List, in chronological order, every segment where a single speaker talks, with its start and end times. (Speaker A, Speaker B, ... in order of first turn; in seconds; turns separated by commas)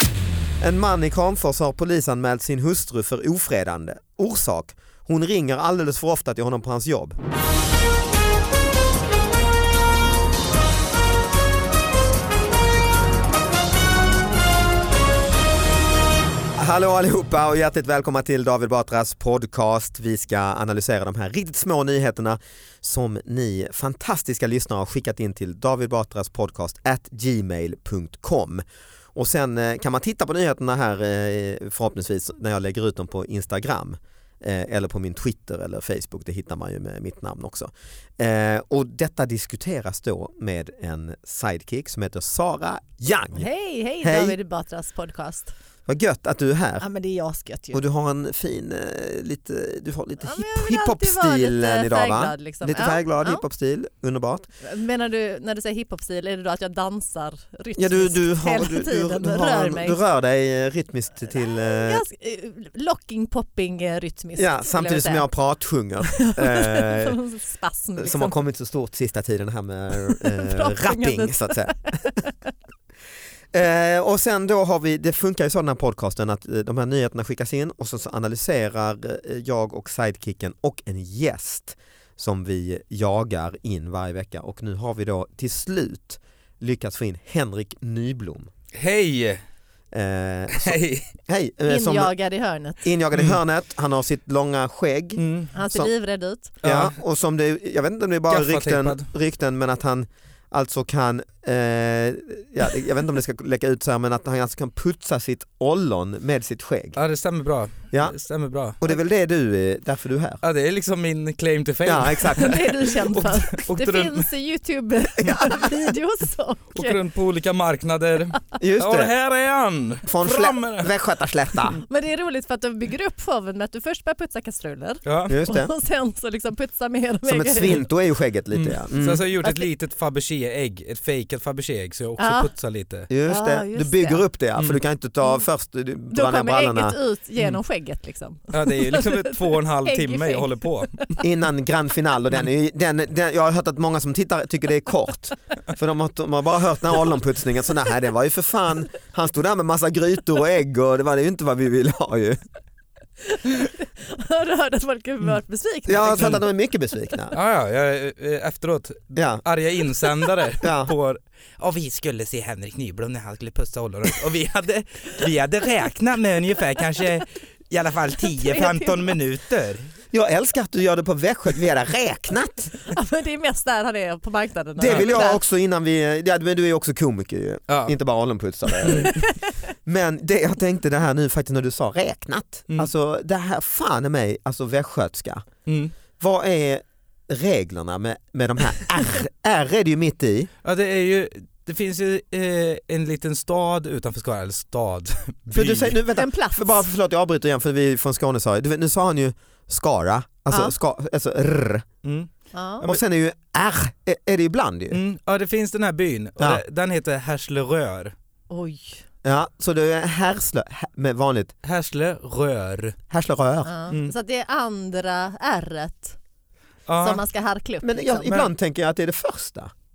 Speaker A: 0.6-7.2, Speaker A: 16.6-28.6, Speaker A: 29.1-43.5, Speaker B: 43.3-45.5, Speaker A: 44.0-44.4, Speaker A: 45.9-46.8, Speaker B: 46.8-47.8, Speaker A: 47.7-54.5, Speaker B: 50.2-53.4, Speaker B: 54.6-60.0, Speaker A: 57.8-62.0, Speaker B: 61.4-65.3, Speaker A: 64.3-67.2, Speaker B: 66.1-68.3, Speaker A: 68.0-72.1, Speaker B: 70.1-72.3, Speaker A: 73.5-88.5, Speaker C: 88.7-89.4, Speaker A: 89.9-92.1, Speaker C: 90.5-91.1, Speaker B: 91.7-92.8, Speaker A: 92.8-95.9, Speaker C: 93.1-93.4, Speaker C: 95.2-95.5, Speaker B: 95.5-96.5, Speaker C: 96.6-96.9, Speaker A: 96.6-107.0, Speaker C: 98.3-99.1, Speaker C: 107.0-108.8, Speaker A: 107.9-108.2, Speaker A: 108.8-110.4, Speaker C: 110.4-114.3, Speaker A: 111.8-112.6, Speaker B: 112.3-117.0, Speaker A: 115.2-115.9, Speaker C: 116.7-120.9, Speaker A: 118.6-119.1, Speaker A: 120.0-121.8, Speaker B: 121.9-127.8, Speaker C: 125.0-125.4, Speaker A: 125.3-125.7, Speaker A: 127.2-129.2, Speaker C: 128.5-133.1, Speaker B: 129.4-129.7, Speaker B: 132.2-132.5, Speaker A: 133.1-136.9, Speaker B: 133.2-134.2, Speaker B: 136.1-141.2, Speaker C: 138.5-141.1, Speaker A: 141.2-152.4, Speaker B: 153.3-156.4, Speaker A: 155.9-157.3, Speaker C: 157.3-169.9, Speaker A: 159.1-159.4, Speaker A: 160.6-160.9, Speaker B: 168.3-169.2, Speaker A: 170.1-172.7, Speaker B: 172.8-175.4, Speaker A: 174.8-179.1, Speaker C: 174.8-175.1, Speaker C: 177.7-177.9, Speaker C: 178.8-179.1, Speaker B: 178.8-179.5, Speaker A: 179.8-185.5, Speaker C: 185.7-185.9, Speaker A: 186.2-190.5, Speaker C: 190.6-195.9, Speaker A: 195.5-201.8, Speaker B: 196.1-196.8, Speaker C: 202.0-202.3, Speaker B: 202.5-202.8, Speaker A: 202.8-205.0, Speaker C: 204.9-208.1, Speaker A: 206.4-206.6, Speaker B: 208.5-209.0, Speaker A: 209.2-211.5, Speaker C: 211.6-213.0, Speaker A: 213.1-213.7, Speaker B: 213.6-216.2, Speaker C: 216.9-217.2, Speaker B: 217.0-218.4, Speaker A: 217.8-219.7